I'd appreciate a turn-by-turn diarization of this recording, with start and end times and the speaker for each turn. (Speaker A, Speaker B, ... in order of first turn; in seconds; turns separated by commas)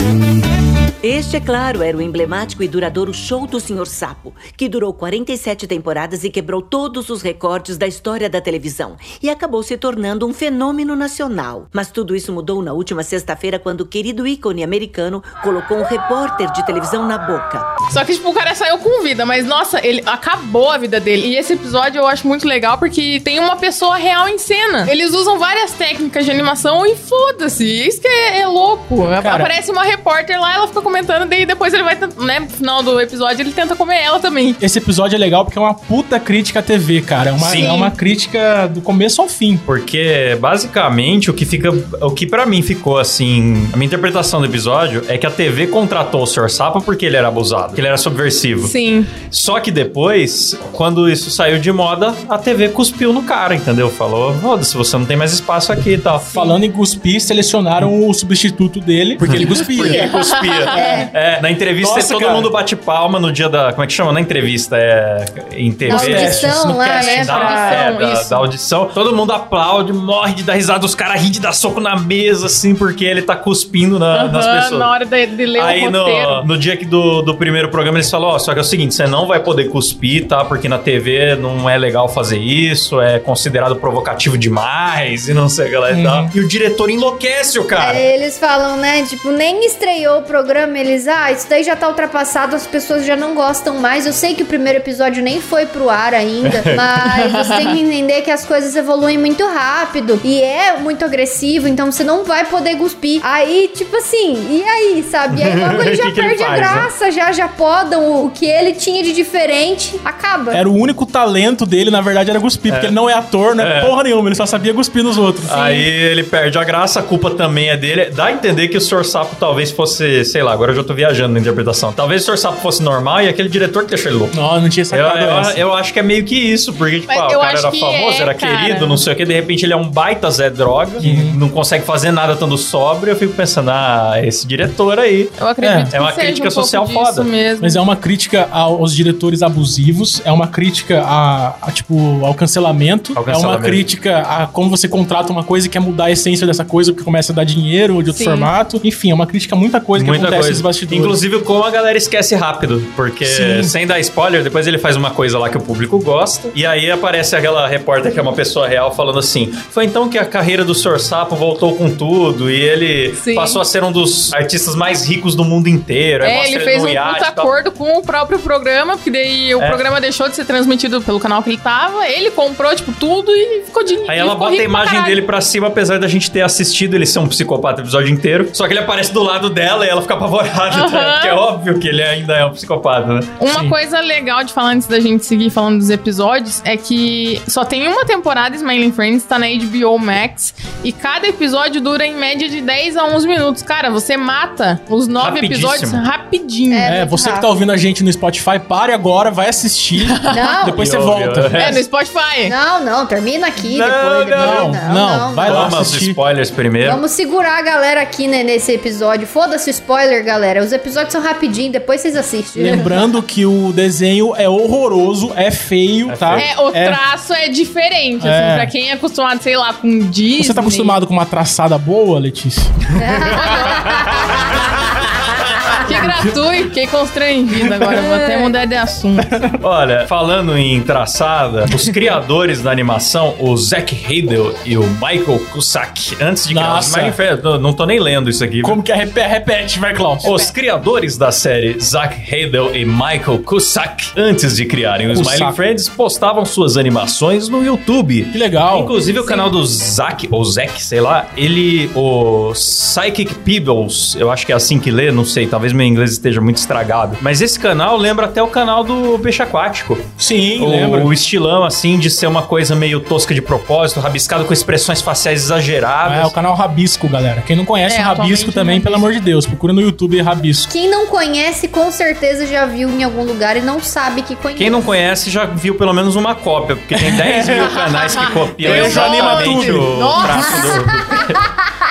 Speaker A: 1.0-17.7, Speaker B: 17.9-34.6, Speaker C: 29.2-29.5, Speaker C: 34.6-39.6, Speaker D: 37.4-37.7, Speaker B: 37.5-37.9, Speaker D: 39.7-48.7, Speaker B: 48.6-49.1, Speaker D: 49.3-56.3, Speaker B: 56.3-56.6, Speaker C: 56.3-60.1, Speaker D: 59.2-74.9, Speaker E: 59.3-60.2, Speaker B: 60.1-60.7, Speaker E: 60.7-61.1, Speaker C: 61.8-62.5, Speaker E: 65.9-67.8, Speaker C: 65.9-67.3, Speaker B: 66.9-68.4, Speaker B: 74.1-76.5, Speaker D: 75.6-88.0, Speaker C: 85.9-86.3, Speaker E: 87.8-110.6, Speaker D: 96.4-96.9, Speaker B: 97.3-97.8, Speaker D: 105.3-106.9, Speaker C: 110.5-115.8, Speaker D: 112.7-113.0, Speaker D: 113.6-114.0, Speaker D: 115.5-124.4, Speaker C: 124.3-125.6, Speaker D: 124.9-135.3, Speaker B: 127.1-129.0, Speaker C: 131.0-131.4, Speaker B: 135.4-137.8, Speaker C: 135.6-135.9, Speaker D: 135.9-137.3, Speaker C: 137.6-151.2, Speaker D: 143.1-143.8, Speaker B: 148.1-148.5, Speaker D: 149.9-167.5, Speaker C: 153.2-153.7, Speaker B: 163.2-163.6, Speaker B: 166.2-175.2, Speaker D: 174.1-183.3, Speaker B: 180.7-181.4, Speaker B: 183.4-197.1, Speaker D: 195.2-196.0, Speaker E: 196.7-197.5, Speaker C: 196.8-201.5, Speaker E: 200.3-200.8, Speaker D: 200.8-201.8, Speaker B: 201.6-202.6, Speaker E: 202.5-205.8, Speaker D: 203.6-204.8, Speaker C: 204.4-206.2, Speaker D: 205.5-207.0, Speaker E: 206.8-213.1, Speaker C: 212.6-217.0, Speaker D: 216.1-216.5, Speaker B: 216.3-221.0, Speaker C: 218.2-218.7, Speaker C: 220.4-222.7, Speaker E: 223.0-224.6, Speaker B: 223.4-223.9, Speaker D: 223.9-224.6, Speaker B: 225.8-229.3, Speaker E: 227.9-228.5, Speaker D: 229.6-238.8, Speaker C: 236.5-237.2, Speaker C: 238.6-240.3, Speaker D: 240.2-266.3, Speaker B: 240.2-240.5, Speaker C: 245.1-245.6, Speaker C: 248.3-248.9, Speaker B: 249.1-249.5, Speaker C: 260.2-261.1, Speaker C: 266.1-270.7, Speaker B: 267.9-269.1, Speaker E: 270.7-274.9, Speaker D: 274.6-281.4, Speaker C: 277.0-277.7, Speaker B: 277.7-280.8, Speaker C: 278.6-280.5, Speaker E: 280.5-281.3